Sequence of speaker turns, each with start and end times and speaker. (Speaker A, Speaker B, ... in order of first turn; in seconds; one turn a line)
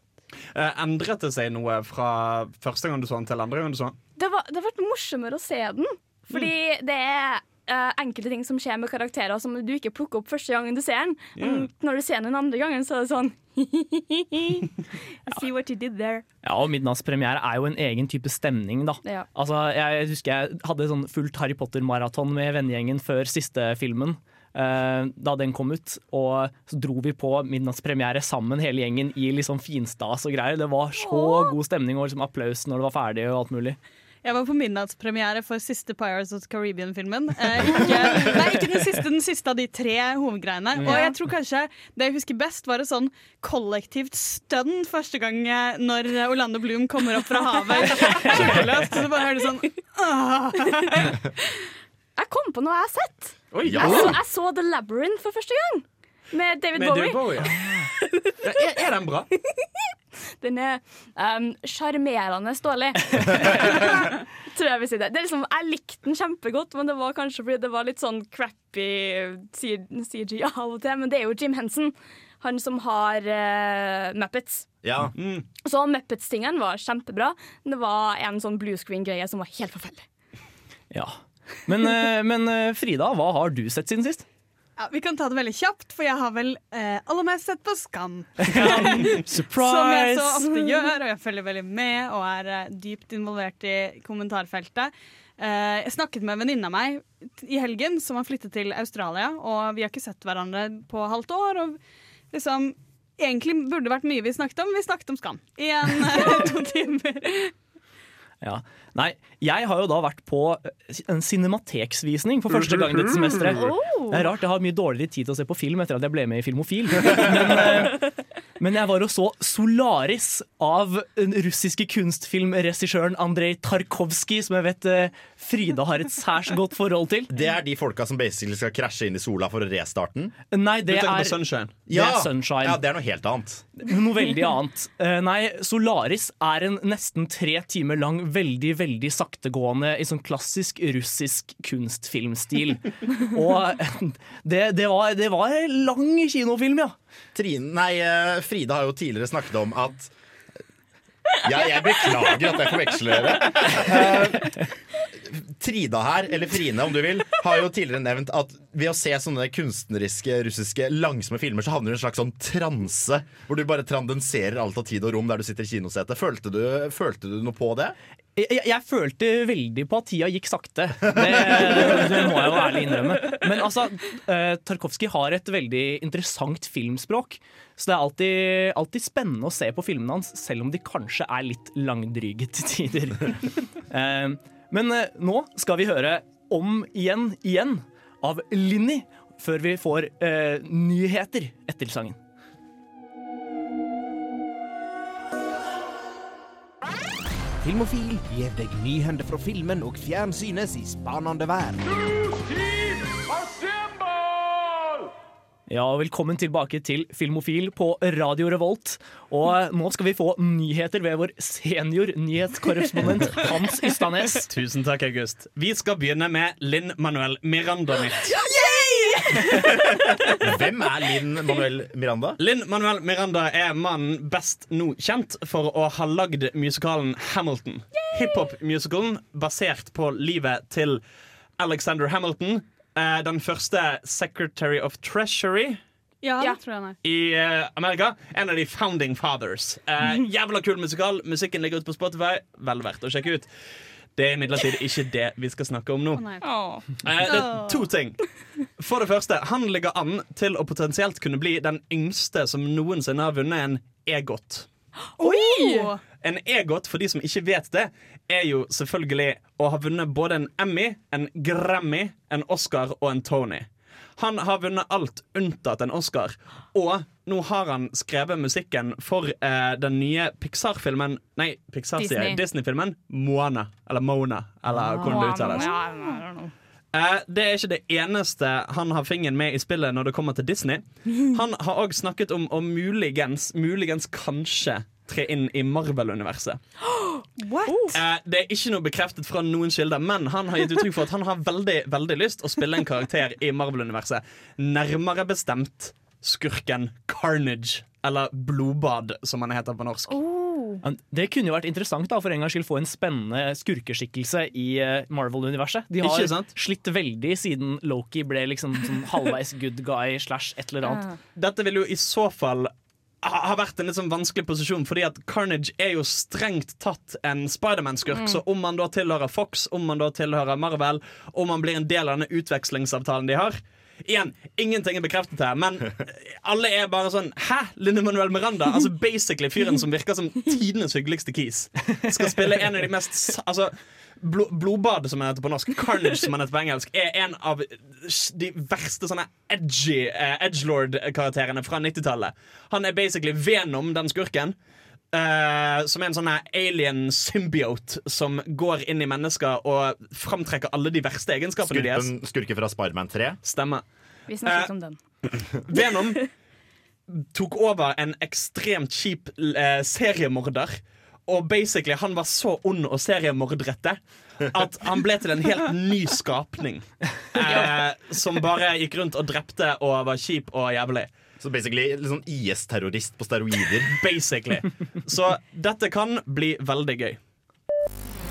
Speaker A: 0.5-4.0
Speaker B: 4.2-16.2
Speaker A: 11.3-11.7
Speaker C: 16.4-33.8
Speaker D: 34.2-51.2
Speaker B: 40.9-41.1
Speaker B: 52.2-58.3
Speaker A: 53.5-54.1
Speaker E: 53.6-54.1
Speaker A: 56.7-57.5
Speaker A: 58.4-59.3
Speaker B: 59.5-59.9
Speaker B: 60.4-74.7
Speaker E: 74.8-75.1
Speaker A: 75.2-75.4
Speaker B: 75.6-80.0
Speaker C: 80.9-84.2
Speaker D: 84.8-101.8
Speaker C: 88.4-90.5
Speaker D: 102.3-107.5
Speaker B: 106.4-106.6
Speaker C: 108.4-118.0
Speaker B: 113.5-114.2
Speaker C: 118.6-127.3
Speaker E: 127.3-130.3
Speaker C: 130.5-131.4
Speaker A: 130.9-131.7
Speaker E: 131.9-133.7
Speaker C: 131.9-132.8
Speaker C: 133.8-146.9
Speaker E: 147.3-150.1
Speaker E: 151.4-167.9
Speaker C: 168.3-192.2
Speaker E: 171.5-172.0
Speaker F: 197.6-201.8
Speaker C: 205.7-214.4
Speaker A: 214.5-218.3
Speaker B: 218.3-220.4
Speaker E: 220.4-222.4
Speaker A: 222.4-231.0
Speaker B: 228.0-228.5
Speaker A: 231.6-235.8
Speaker D: 236.2-237.0
Speaker A: 237.0-243.5
Speaker A: 244.2-246.2
Speaker D: 246.1-246.4
Speaker B: 246.4-247.0
Speaker A: 247.0-248.2
Speaker D: 247.2-247.8
Speaker A: 248.8-254.7
Speaker B: 255.2-255.9
Speaker D: 255.2-256.0
Speaker A: 256.2-275.7
Speaker B: 272.0-272.4
Speaker C: 274.7-275.2
Speaker B: 274.9-276.5
Speaker A: 276.9-286.6
Speaker B: 286.9-288.0
Speaker D: 287.4-287.9
Speaker A: 287.9-300.1
Speaker B: 300.1-300.8
Speaker C: 300.8-311.0
Speaker A: 306.0-306.5
Speaker B: 310.8-311.2
Speaker A: 311.3-312.7
Speaker A: 313.2-344.5
Speaker B: 318.1-318.4
Speaker A: 345.1-352.1
Speaker E: 351.6-353.4
Speaker A: 353.4-353.8
Speaker B: 354.3-355.0
Speaker A: 354.4-354.7
Speaker A: 355.6-356.2
Speaker A: 357.1-360.8
Speaker A: 361.3-371.1
Speaker B: 367.4-367.8
Speaker E: 371.4-373.9
Speaker A: 373.9-377.2